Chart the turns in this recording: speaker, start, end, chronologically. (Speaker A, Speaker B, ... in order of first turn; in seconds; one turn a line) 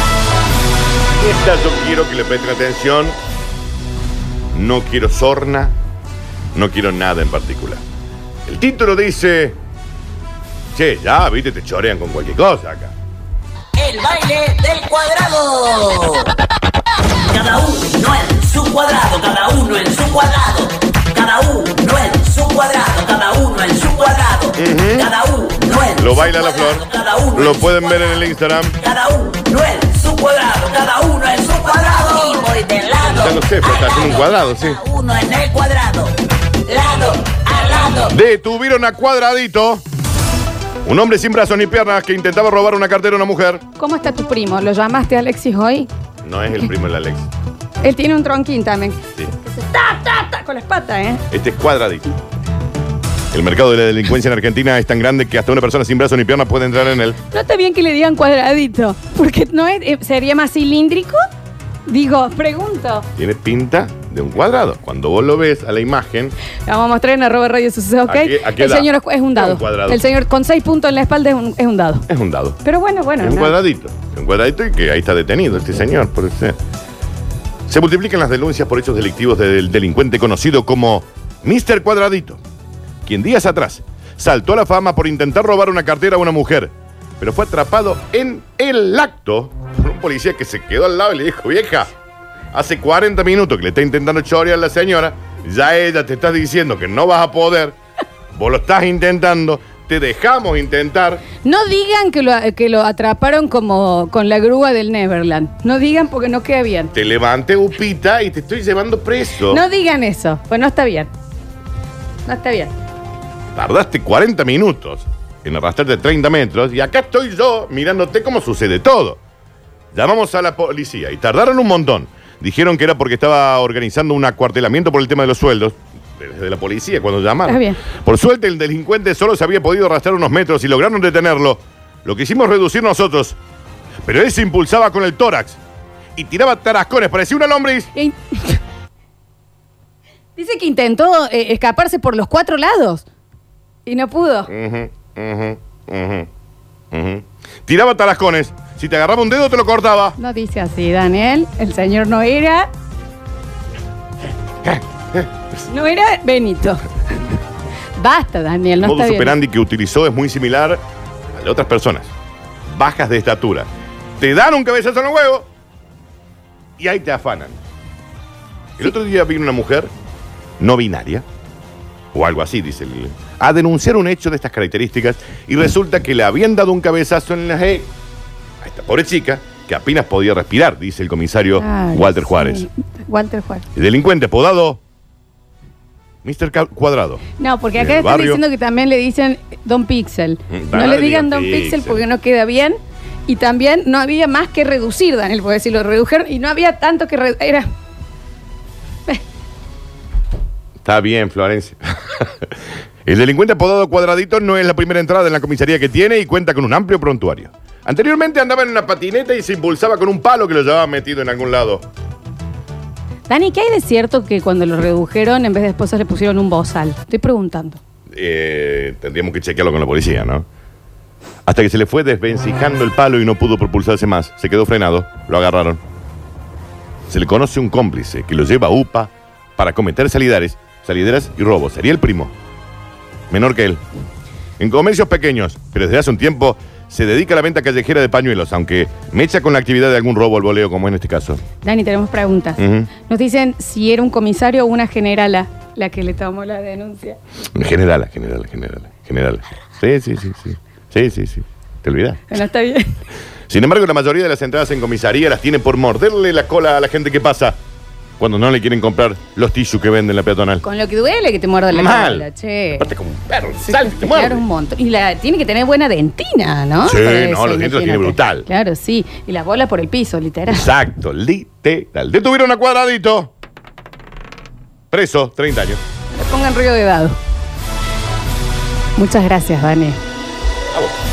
Speaker A: 1.1-3.2
Speaker A: 4.5-5.8
Speaker A: 6.5-7.8
Speaker A: 8.5-9.6
Speaker A: 10.8-12.9
Speaker B: 13.8-16.3
Speaker B: 17.3-28.2
Speaker A: 24.6-25.1
Speaker A: 26.0-28.8
Speaker B: 28.8-38.1
Speaker A: 33.0-34.8
Speaker A: 38.1-39.8
Speaker A: 40.9-43.6
Speaker C: 43.8-45.9
Speaker A: 46.2-47.3
Speaker C: 47.8-51.2
Speaker A: 51.3-52.1
Speaker A: 53.3-57.2
Speaker C: 57.3-61.2
Speaker C: 61.9-63.1
Speaker A: 63.2-66.3
Speaker C: 66.7-72.1
Speaker A: 68.1-70.0
Speaker A: 72.1-72.6
Speaker C: 72.6-73.6
Speaker A: 73.2-76.6
Speaker A: 77.7-82.4
Speaker A: 83.1-91.9
Speaker A: 92.5-97.8
Speaker A: 98.3-101.2
Speaker C: 101.4-106.9
Speaker A: 106.9-109.6
Speaker C: 109.5-111.1
Speaker C: 112.2-112.7
Speaker A: 113.5-119.2
Speaker A: 119.9-133.4
Speaker C: 127.5-127.8
Speaker A: 134.1-135.6
Speaker A: 136.2-137.9
Speaker C: 137.9-138.6
Speaker C: 140.4-143.1
Speaker C: 143.9-144.5
Speaker A: 144.5-146.3
Speaker A: 146.9-150.2
Speaker C: 150.2-152.7
Speaker A: 154.7-155.2
Speaker C: 155.7-156.9
Speaker C: 158.0-159.4
Speaker A: 158.8-160.8
Speaker A: 161.3-162.1
Speaker A: 162.7-165.5
Speaker A: 166.8-167.6
Speaker A: 168.8-169.9
Speaker A: 170.6-171.2
Speaker A: 172.1-177.9
Speaker A: 178.6-182.7
Speaker C: 181.6-183.7
Speaker A: 183.8-184.8
Speaker A: 186.2-187.2
Speaker C: 187.4-197.7
Speaker A: 187.8-188.4
Speaker A: 190.5-192.0
Speaker A: 200.8-202.5
Speaker A: 203.1-211.9
Speaker C: 213.3-217.8
Speaker A: 218.1-220.4
Speaker A: 221.4-225.8
Speaker A: 227.1-232.3
Speaker A: 233.3-233.8
Speaker A: 234.6-241.4
Speaker C: 241.6-247.2
Speaker A: 242.6-242.9
Speaker A: 247.5-252.2
Speaker C: 252.3-252.9
Speaker A: 253.5-257.6
Speaker A: 258.2-260.6
Speaker C: 260.6-262.9
Speaker A: 261.7-262.2
Speaker A: 262.8-264.4
Speaker C: 263.6-270.7
Speaker A: 266.8-268.5
Speaker A: 270.5-273.3
Speaker A: 274.9-275.8
Speaker C: 276.1-277.2
Speaker C: 279.0-280.0